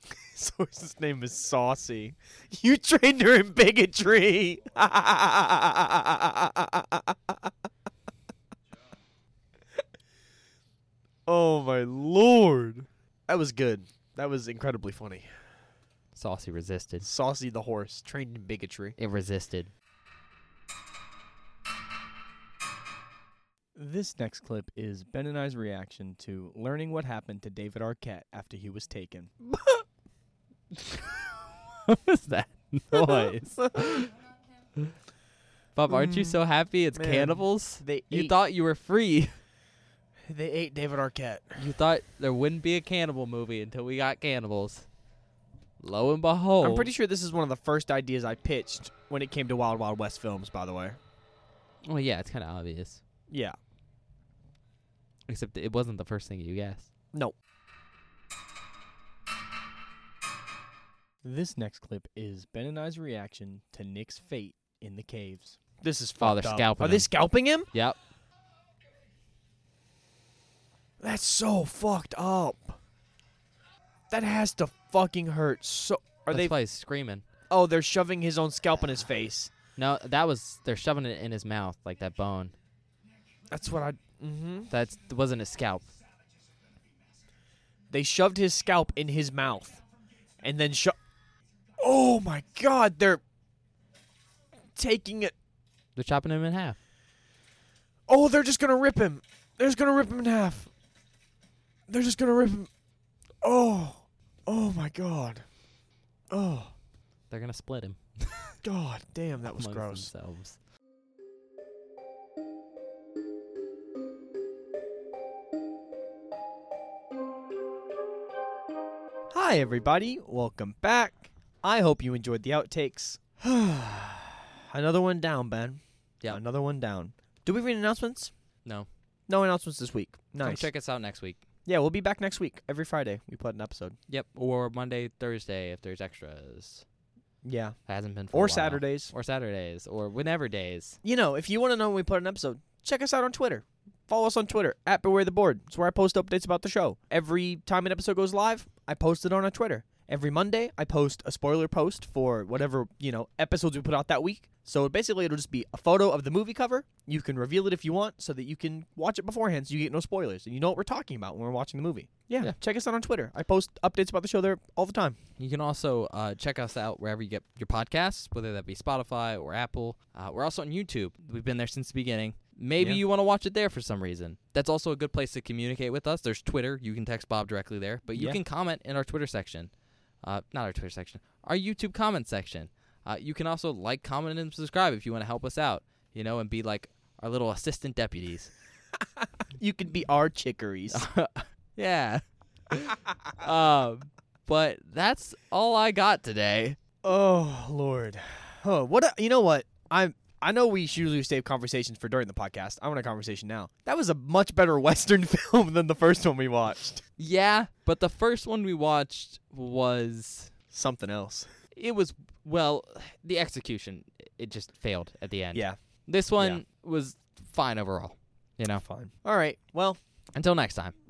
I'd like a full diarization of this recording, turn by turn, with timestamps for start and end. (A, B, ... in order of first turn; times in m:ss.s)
0:00.2-0:07.5 A
0:11.2-0:15.3 A
0:16.1-0:17.1 B
0:17.0-0:19.0 A
0:19.0-0:19.7 B
0:23.7-0:29.5 A
0:31.8-0:34.1 B
0:32.9-0:34.0 A
0:35.7-0:39.3 B
0:35.9-0:36.4 A
0:36.9-0:38.3 A
0:40.3-0:41.6 A
0:41.6-0:44.9 B
0:45.8-0:46.9 B
0:46.6-0:51.0 A
0:51.8-0:53.0 B
0:53.3-0:53.6 A
0:55.3-0:56.9 B
1:01.2-1:07.7 A
1:06.2-1:07.1 B
1:07.7-1:08.0 B
1:11.0-1:12.8 A
1:14.1-1:16.5 A
1:16.3-1:17.2 B
1:17.5-1:19.5 A
1:19.8-1:22.5 B
1:23.5-1:24.7 A
1:24.7-1:25.9 B
1:27.9-1:29.8 A
1:30.4-1:31.0 A
1:31.8-1:33.2 A
1:34.7-1:35.3 A
1:36.0-1:36.8 B
1:38.1-1:40.7 A
1:41.9-1:42.7 A
1:43.4-1:45.4 A
1:46.3-1:46.7 A
1:47.3-1:48.6 B
1:48.6-1:50.1 A
1:49.5-1:50.6 B
1:59.3-2:08.3 A
2:09.3-2:10.7 A
2:10.4-2:11.4 B
2:11.6-2:14.0 A
2:14.1-2:16.8 B
2:17.4-2:17.8 A
2:17.9-2:21.0 B
2:18.3-2:19.1 A
2:21.0-2:45.2 A
2:45.4-2:59.7 B
2:58.1-2:58.4 A
3:00.2-3:08.5 B
3:09.6-3:11.0 A
3:10.9-3:16.8 B
3:17.0-3:27.0 A
3:27.2-3:30.5 B
3:30.7-3:31.4 A
3:31.7-3:38.8 B
3:38.8-3:40.0 A
3:40.3-3:40.9 B